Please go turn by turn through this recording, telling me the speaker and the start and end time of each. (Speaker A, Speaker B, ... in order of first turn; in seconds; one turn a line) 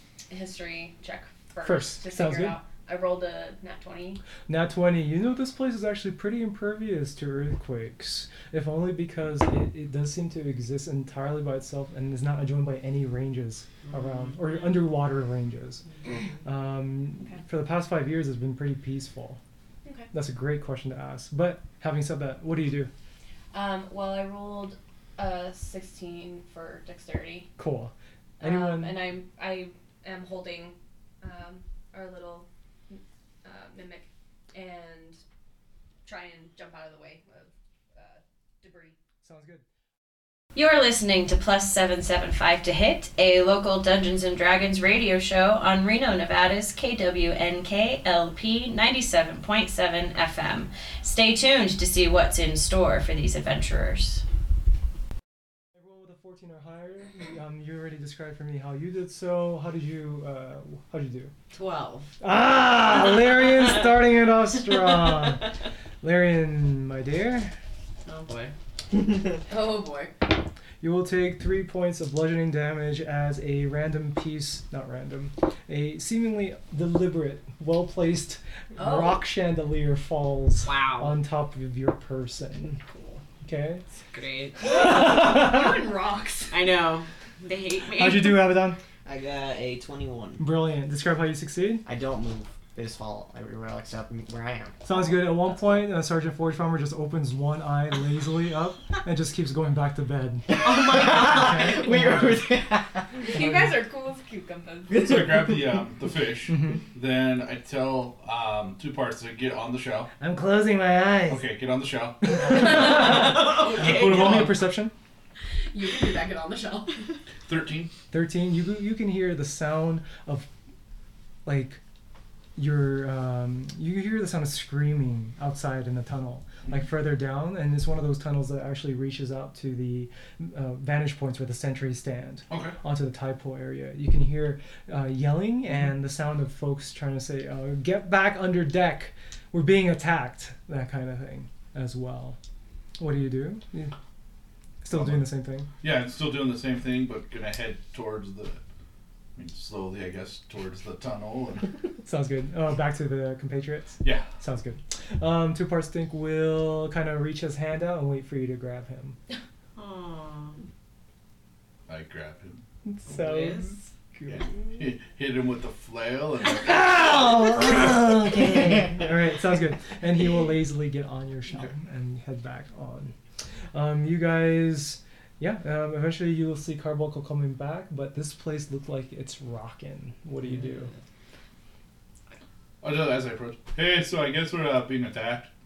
Speaker A: 0.3-4.2
Speaker B: 1.6-2.6
Speaker B: 4.5-15.8
Speaker B: 16.4-19.4
Speaker A: 19.9-20.1
Speaker B: 20.1-22.9
Speaker A: 23.5-27.5
Speaker B: 27.6-29.1
Speaker A: 28.4-35.2
Speaker A: 36.0-39.0
Speaker B: 39.2-39.6
Speaker C: 40.5-54.2
Speaker B: 55.7-61.3
Speaker D: 61.5-62.1
Speaker B: 62.2-67.5
Speaker D: 68.1-68.5
Speaker A: 69.5-70.2
Speaker B: 70.8-82.8
Speaker A: 78.8-79.2
Speaker D: 80.6-81.2
Speaker D: 82.9-83.2
Speaker B: 83.4-83.8
Speaker D: 84.1-84.7
Speaker A: 84.6-86.6
Speaker B: 84.8-85.7
Speaker D: 86.5-88.6
Speaker B: 87.9-88.8
Speaker E: 89.0-90.4
Speaker B: 90.4-91.8
Speaker E: 91.8-94.8
Speaker B: 94.8-102.4
Speaker E: 100.5-103.1
Speaker D: 100.6-102.1
Speaker A: 103.2-105.2
Speaker B: 103.3-103.8
Speaker F: 104.9-110.1
Speaker B: 106.5-106.8
Speaker B: 110.2-111.4
Speaker F: 111.3-113.0
Speaker B: 112.3-114.9
Speaker D: 112.9-113.6
Speaker A: 113.6-114.1
Speaker F: 113.7-114.6
Speaker A: 115.7-117.0
Speaker F: 117.5-117.9
Speaker B: 118.1-120.5
Speaker B: 121.5-121.8
Speaker B: 122.6-142.4
Speaker F: 132.5-132.8
Speaker B: 143.0-143.9
Speaker B: 144.8-145.7
Speaker F: 144.9-145.3
Speaker F: 145.8-148.6
Speaker F: 149.4-151.7
Speaker B: 152.1-159.2
Speaker F: 154.0-154.3
Speaker D: 159.8-160.6
Speaker F: 161.9-162.6
Speaker B: 162.8-164.5
Speaker D: 163.1-163.9
Speaker F: 164.3-167.9
Speaker B: 166.6-173.2
Speaker B: 173.7-180.9
Speaker F: 182.8-185.5